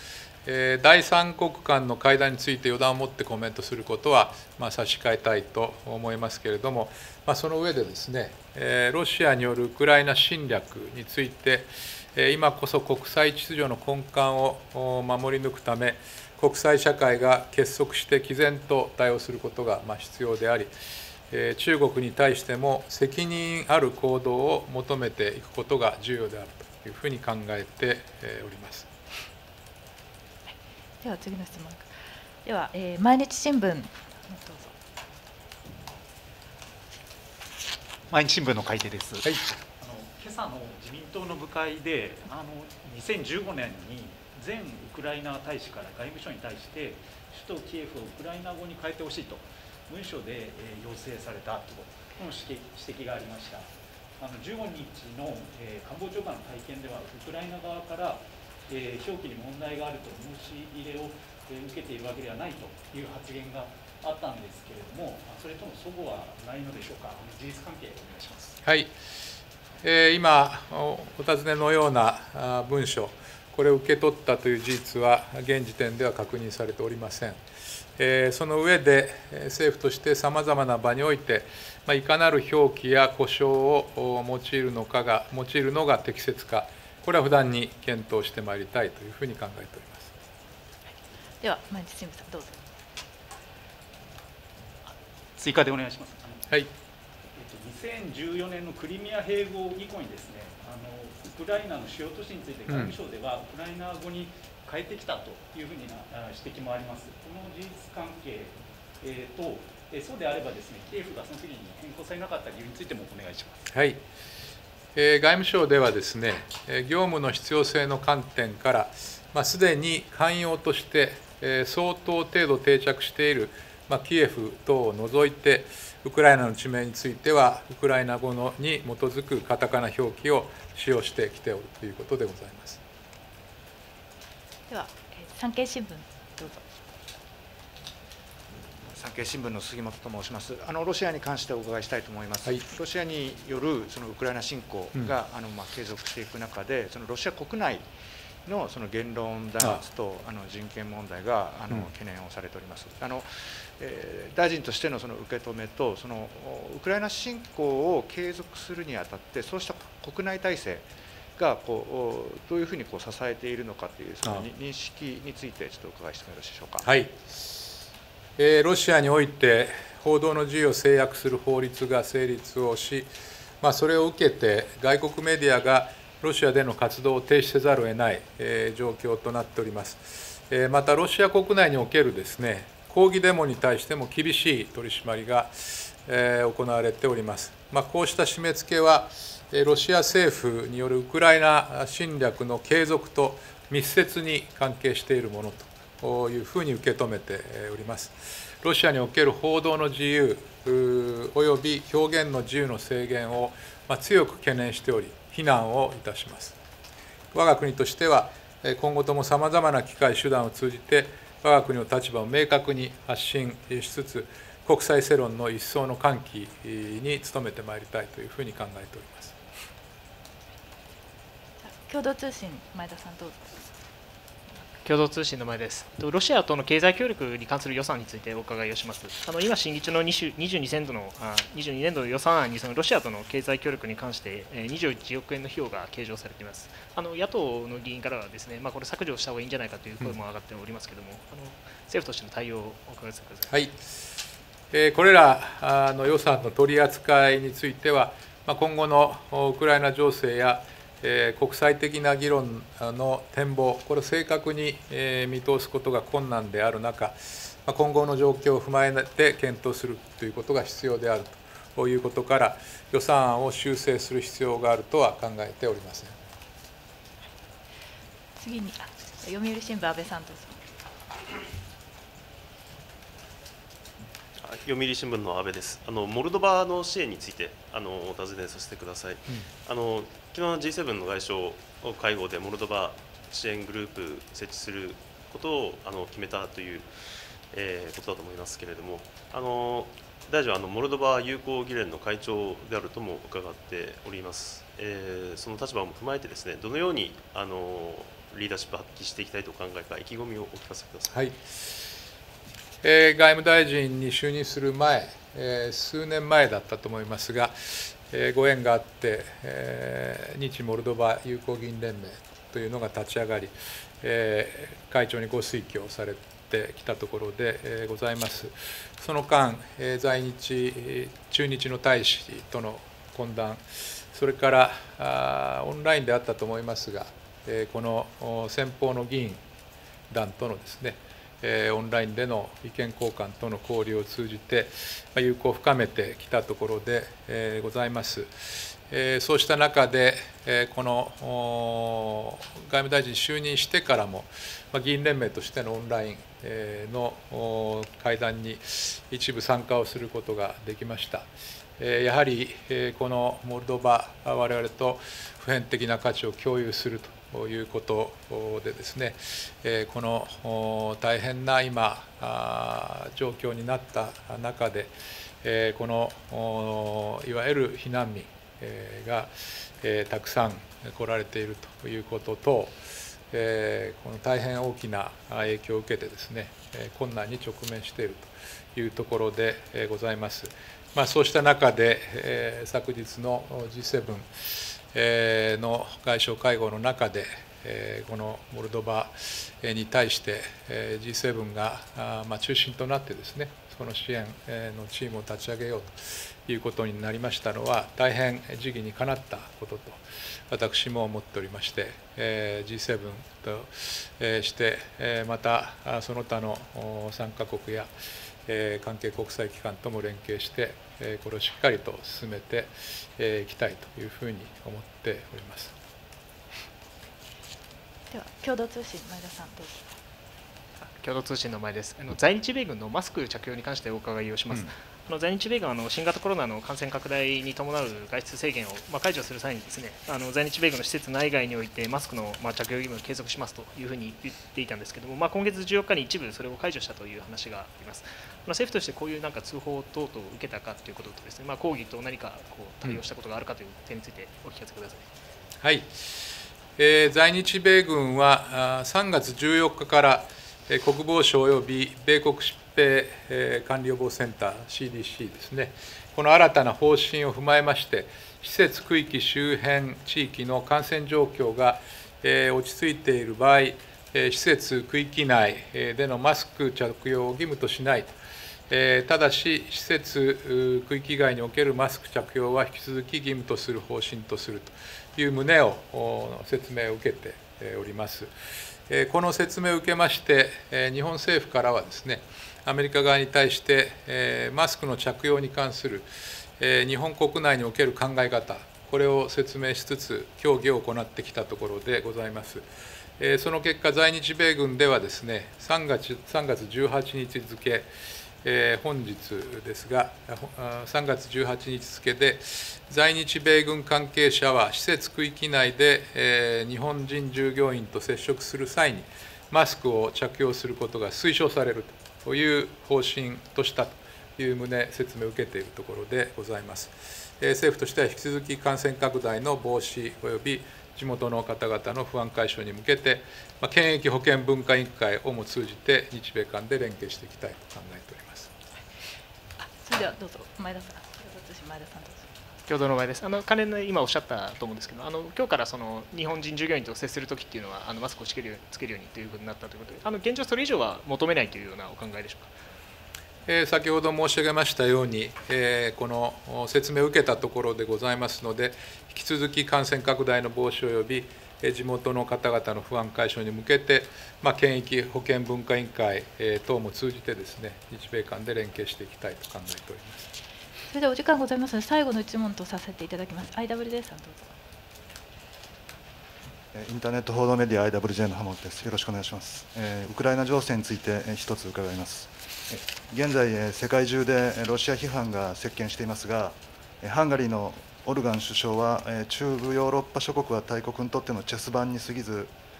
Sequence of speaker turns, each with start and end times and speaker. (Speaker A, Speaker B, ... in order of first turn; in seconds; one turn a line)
Speaker A: 0.5-20.7
Speaker A: 21.3-28.9
Speaker B: 30.5-31.9
Speaker B: 32.5-34.7
Speaker C: 38.1-53.7
Speaker D: 38.5-39.1
Speaker C: 54.2-68.6
Speaker A: 68.6-68.9
Speaker A: 69.8-77.4
Speaker A: 78.0-90.1
Speaker B: 91.4-92.6
Speaker C: 94.8-96.5
Speaker C: 97.4-113.6
Speaker A: 102.7-103.0
Speaker A: 113.7-114.0
Speaker A: 115.0-132.8
Speaker B: 134.7-136.6
Speaker D: 138.9-147.9
Speaker D: 148.4-166.9
Speaker A: 166.8-167.2
Speaker A: 168.4-206.6
Speaker A: 207.3-219.4
Speaker B: 221.6-223.6
Speaker E: 224.8-243.5
Speaker A: 243.5-243.8
Speaker A: 244.7-266.2
Speaker B: 268.4-270.6
Speaker F: 274.4-286.9
Speaker F: 287.5-301.2
Speaker A: 301.1-301.4
Speaker A: 302.8-329.4
Speaker A: 330.1-338.3
Speaker A: 338.9-351.3
Speaker A: 351.8-364.9
Speaker A: 365.4-369.3
Speaker A: 369.8-372.8
Speaker A: 373.3-384.3
Speaker A: 384.9-407.9
Speaker A: 408.5-415.7
Speaker B: 418.1-419.9
Speaker E: 420.8-445.1
Speaker A: 445.6-445.9
Speaker A: 446.8-468.1
Speaker A: 468.7-478.3
Speaker A: 478.9-492.7
Speaker A: 493.2-497.9
Speaker A: 498.4-528.5
Speaker B: 529.6-532.3
Speaker E: 532.7-542.5
Speaker A: 543.5-560.3
Speaker B: 560.9-564.5
Speaker G: 566.7-582.5